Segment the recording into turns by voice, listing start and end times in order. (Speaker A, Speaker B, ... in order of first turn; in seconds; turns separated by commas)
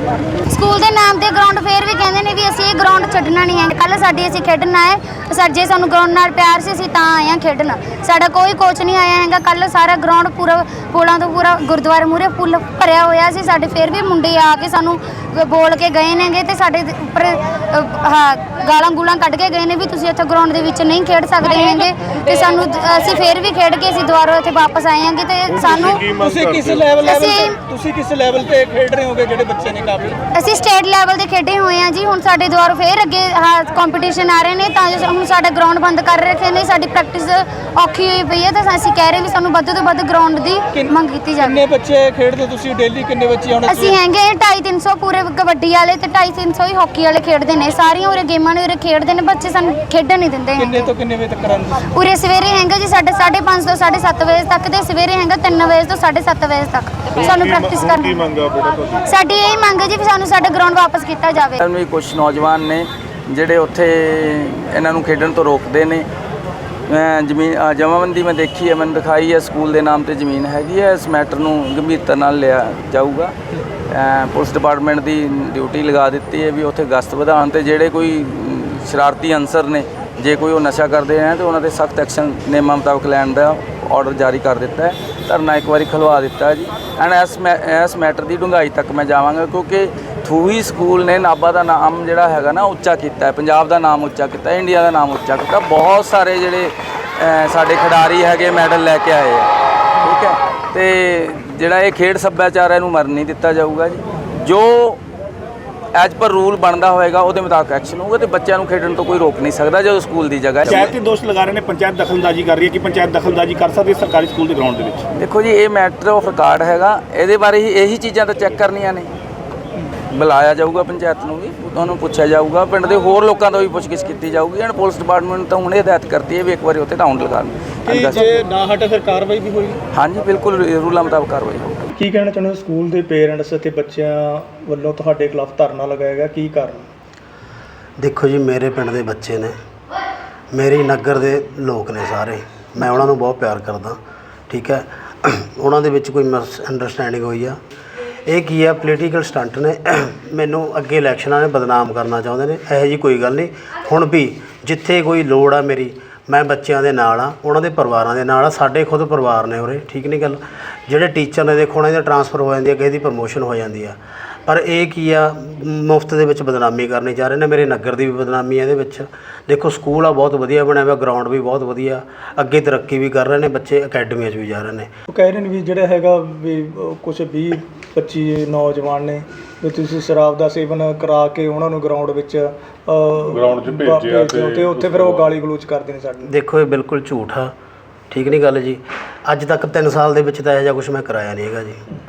Speaker A: 0.5-26.0, Speaker B: 25.5-27.2, Speaker C: 26.2-30.2, Speaker A: 27.0-27.6, Speaker A: 30.4-41.6, Speaker C: 40.7-44.0, Speaker A: 43.6-50.9, Speaker C: 50.6-51.8, Speaker A: 51.9-58.2, Speaker B: 57.2-59.0, Speaker A: 59.0-61.7, Speaker D: 61.6-66.1, Speaker D: 66.9-73.3, Speaker D: 73.9-99.5, Speaker D: 100.0-105.0, Speaker D: 105.9-111.0, Speaker E: 110.7-115.0, Speaker D: 115.2-119.1, Speaker D: 120.1-128.4, Speaker C: 127.9-129.8, Speaker D: 129.9-131.8, Speaker C: 132.0-136.9, Speaker F: 138.0-139.5, Speaker F: 140.5-144.0, Speaker F: 144.5-147.6, Speaker F: 148.3-174.9, Speaker C: 175.1-186.3, Speaker B: 183.2-185.4, Speaker F: 186.3-187.5, Speaker F: 188.1-191.8